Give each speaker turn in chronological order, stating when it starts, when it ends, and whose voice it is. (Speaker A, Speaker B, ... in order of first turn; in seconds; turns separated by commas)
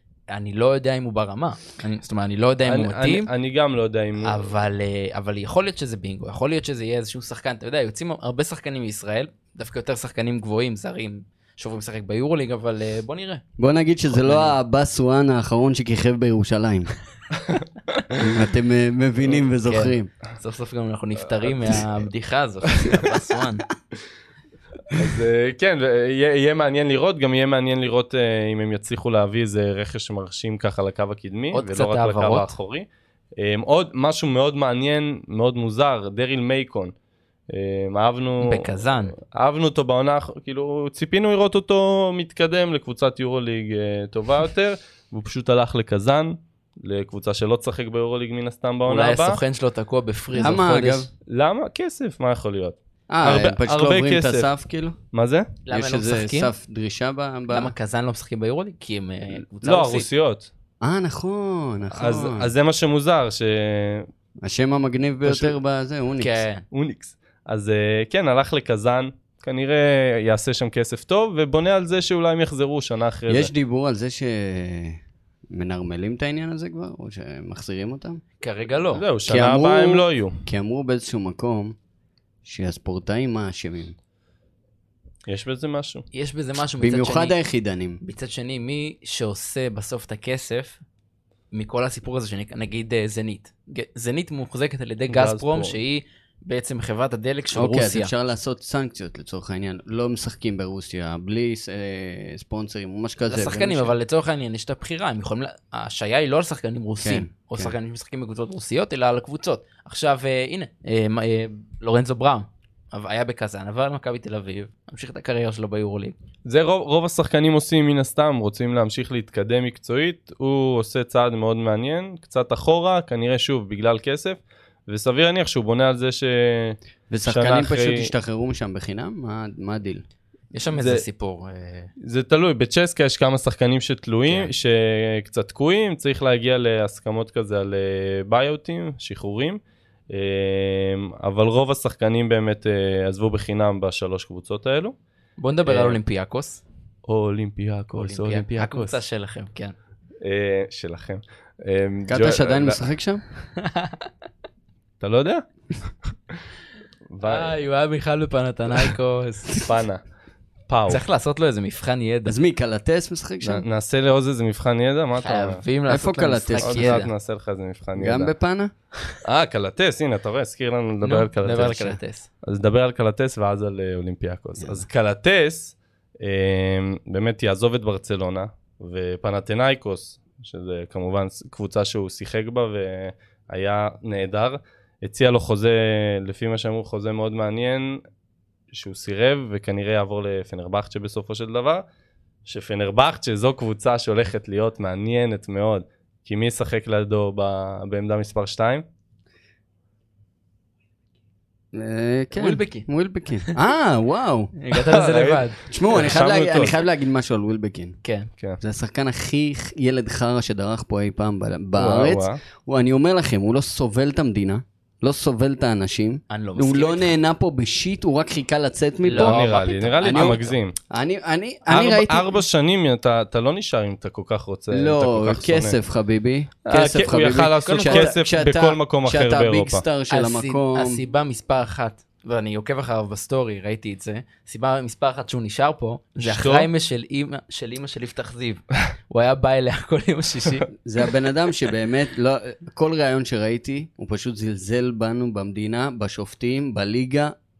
Speaker A: 0.3-3.3, Speaker B: 2.6-4.4, Speaker A: 4.2-13.4, Speaker C: 13.6-16.9, Speaker A: 14.1-14.5, Speaker B: 17.4-18.2, Speaker C: 18.2-20.1, Speaker A: 19.6-23.6, Speaker B: 21.4-21.9, Speaker B: 24.9-36.9, Speaker A: 31.5-32.5, Speaker B: 37.5-49.4, Speaker A: 38.4-39.1, Speaker A: 48.9-51.1, Speaker C: 50.3-51.1, Speaker B: 51.3-54.5, Speaker C: 53.1-55.0, Speaker B: 55.1-55.5, Speaker A: 55.6-56.5, Speaker C: 55.7-57.7, Speaker A: 57.5-60.1, Speaker B: 59.6-60.5, Speaker C: 60.8-62.5, Speaker B: 61.9-64.1, Speaker C: 64.4-66.4, Speaker B: 65.2-65.5, Speaker A: 66.2-66.6, Speaker B: 66.7-73.5, Speaker C: 73.3-75.0, Speaker C: 75.5-78.2, Speaker A: 78.4-79.0, Speaker B: 78.9-80.4, Speaker C: 79.3-81.8, Speaker C: 82.4-83.9, Speaker B: 85.3-86.0, Speaker A: 86.1-87.3, Speaker C: 86.8-88.0, Speaker A: 88.0-90.8, Speaker A: 91.5-98.1, Speaker B: 95.1-95.8, Speaker C: 97.5-104.0, Speaker A: 103.2-116.1, Speaker C: 107.0-107.7, Speaker B: 116.5-128.1, Speaker C: 127.1-130.0, Speaker A: 130.5-131.9, Speaker B: 130.7-131.0, Speaker B: 132.0-144.9, Speaker A: 145.4-146.6, Speaker B: 145.7-146.0, Speaker B: 147.1-148.9, Speaker A: 148.0-149.7, Speaker B: 150.2-152.8, Speaker C: 152.1-153.2, Speaker A: 153.6-154.1, Speaker B: 155.0-156.3, Speaker B: 157.1-157.5, Speaker A: 157.2-159.7, Speaker B: 159.6-160.0, Speaker B: 160.7-161.0, Speaker A: 160.9-162.3, Speaker C: 162.2-163.6, Speaker B: 163.4-165.6, Speaker A: 165.2-167.1, Speaker C: 165.9-167.0, Speaker B: 166.6-168.3, Speaker C: 168.0-168.7, Speaker B: 169.2-188.0, Speaker A: 171.0-172.3, Speaker B: 188.7-191.8, Speaker B: 192.4-198.8, Speaker C: 201.7-204.5, Speaker A: 202.3-202.9, Speaker A: 204.6-205.6, Speaker B: 204.7-206.7, Speaker C: 205.7-207.9, Speaker A: 208.0-208.3, Speaker C: 208.6-222.3, Speaker B: 211.8-212.4, Speaker A: 216.3-217.2, Speaker A: 219.0-220.5, Speaker B: 219.1-220.7, Speaker B: 221.7-225.8, Speaker C: 224.7-231.0, Speaker B: 226.7-229.8, Speaker A: 227.6-228.1, Speaker A: 230.1-240.7, Speaker B: 236.2-236.7, Speaker C: 240.8-247.3